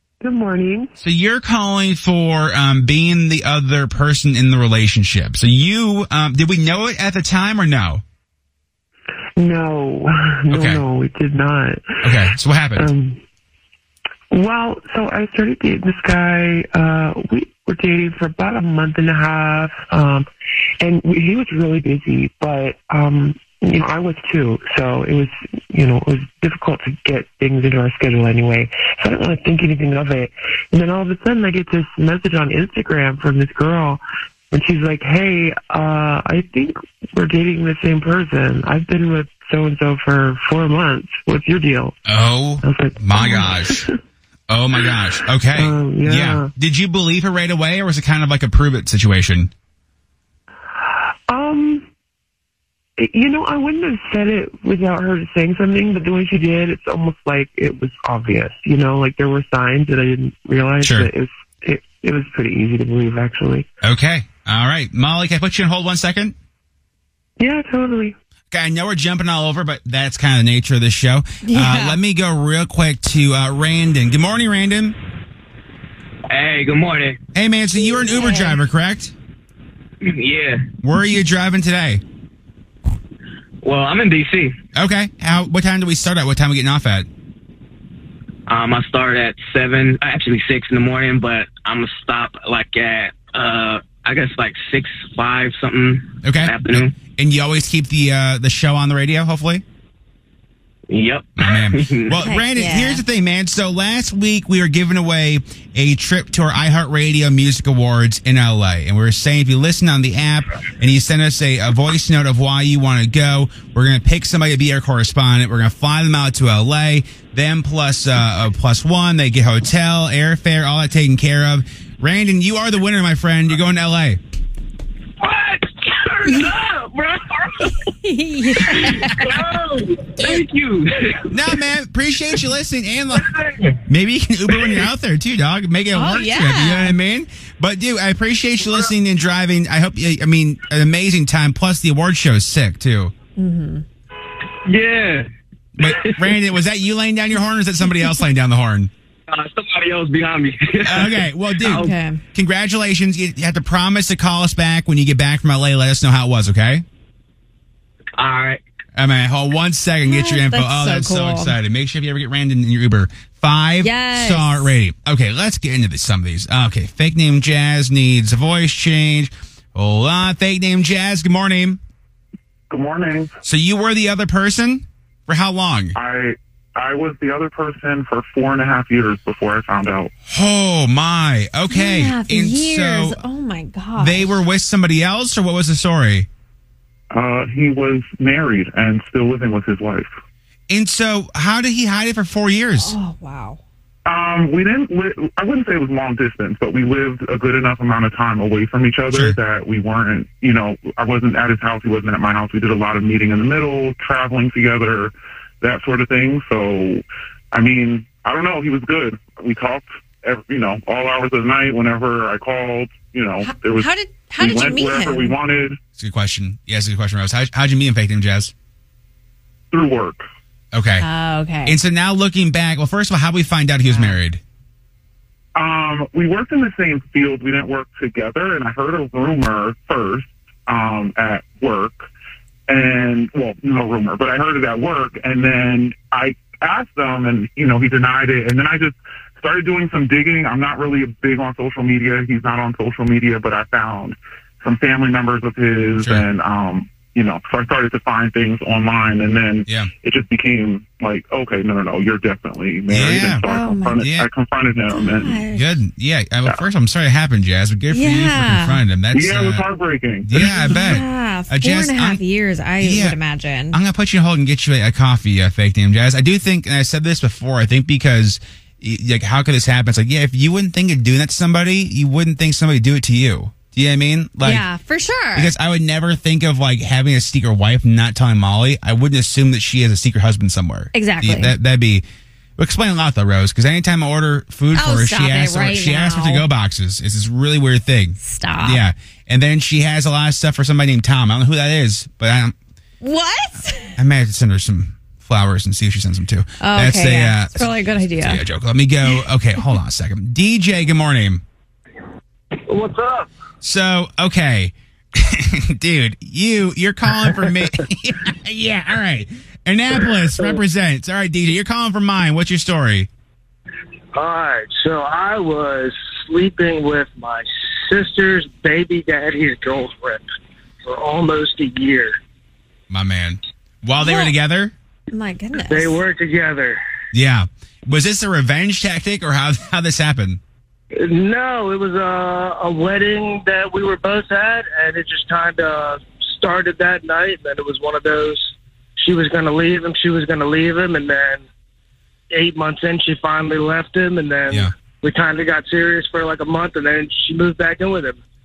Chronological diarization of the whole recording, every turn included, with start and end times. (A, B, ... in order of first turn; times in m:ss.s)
0:00.2-0:00.9 A
0:01.0-0:08.0 B
0:09.4-0:12.2 A
0:10.5-0:10.8 B
0:12.0-0:12.9 B
0:12.8-0:13.2 A
0:14.3-0:20.3 A
0:20.8-0:42.0 A
0:42.1-0:43.9 B
0:42.6-0:44.0 A
0:44.5-0:49.5 B
0:45.5-0:46.5 A
0:50.8-0:51.9 A
0:53.0-1:03.7 A
1:00.8-1:01.1 B
1:03.8-1:06.4 B
1:07.4-1:08.2 A
1:08.5-1:15.0 B
1:11.4-1:12.0 C
1:16.3-1:17.2 D
1:17.4-1:19.1 B
1:17.9-1:18.6 C
1:20.0-1:20.7 D
1:20.8-1:22.0 B
1:23.6-1:24.6 D
1:24.8-1:27.1 B
1:28.5-1:36.9 D
1:36.2-1:39.6 B
1:40.9-1:42.2 D
1:41.4-2:04.2 B
1:42.2-1:43.0 C
2:05.2-2:07.7 D
2:06.3-2:06.5 C
2:07.7-2:09.3 C
2:08.6-2:11.5 D
2:11.3-2:13.3 B
2:13.9-2:23.1 B
2:14.6-2:14.8 D
2:15.9-2:17.0 C
2:23.4-2:23.8 C
2:24.6-2:25.3 D
2:25.8-2:28.9 B
2:25.8-2:26.4 D
2:29.3-2:31.9 D
2:30.8-2:36.8 B
2:31.6-2:32.2 C
2:38.2-2:38.6 D
2:39.0-2:51.8 B
2:40.1-2:41.6 C
2:43.8-2:44.7 C
2:52.7-2:53.3 E
2:53.4-2:56.0 B
2:56.0-3:00.1 E
3:00.3-3:03.2 B
3:01.7-3:04.3 C
3:04.0-3:06.3 B
3:07.1-3:10.1 E
3:10.7-3:13.0 B
3:12.8-3:13.6 C
3:14.1-3:33.9 E
3:19.1-3:19.4 B
3:33.4-3:35.4 C
3:34.4-3:35.8 E
3:36.0-3:38.5 B
3:39.7-3:40.2 E
3:40.7-3:41.1 B
3:41.0-3:41.8 C
3:41.7-3:44.4 B
3:43.9-3:44.2 C
3:45.6-3:52.1 E
3:52.7-4:15.4 E
4:06.0-4:06.3 B
4:12.9-4:13.4 B
4:13.4-4:14.0 C
4:14.0-4:14.3 B
4:14.9-4:15.7 C
4:15.5-4:19.6 B
4:17.9-4:18.8 C
4:19.1-4:21.0 E
4:20.2-4:22.2 B
4:20.6-4:23.8 C
4:22.8-4:23.2 B
4:23.7-4:34.6 B
4:34.4-4:35.5 C
4:35.4-4:42.0 B
4:40.9-4:41.6 C
4:42.6-4:52.5 B
4:44.8-4:46.4 C
4:48.2-4:48.8 C
4:53.0-4:53.9 C
4:54.0-5:01.4 B
4:56.6-4:58.4 C
5:02.7-5:03.3 F
5:03.6-5:13.1 B
5:14.2-5:20.2 F
5:20.8-5:22.2 F
5:22.9-5:24.7 B
5:24.0-5:24.3 C
5:25.1-5:26.0 C
5:25.6-5:26.8 F
5:27.1-5:30.4 B
5:31.0-5:41.4 F
5:42.3-5:48.2 F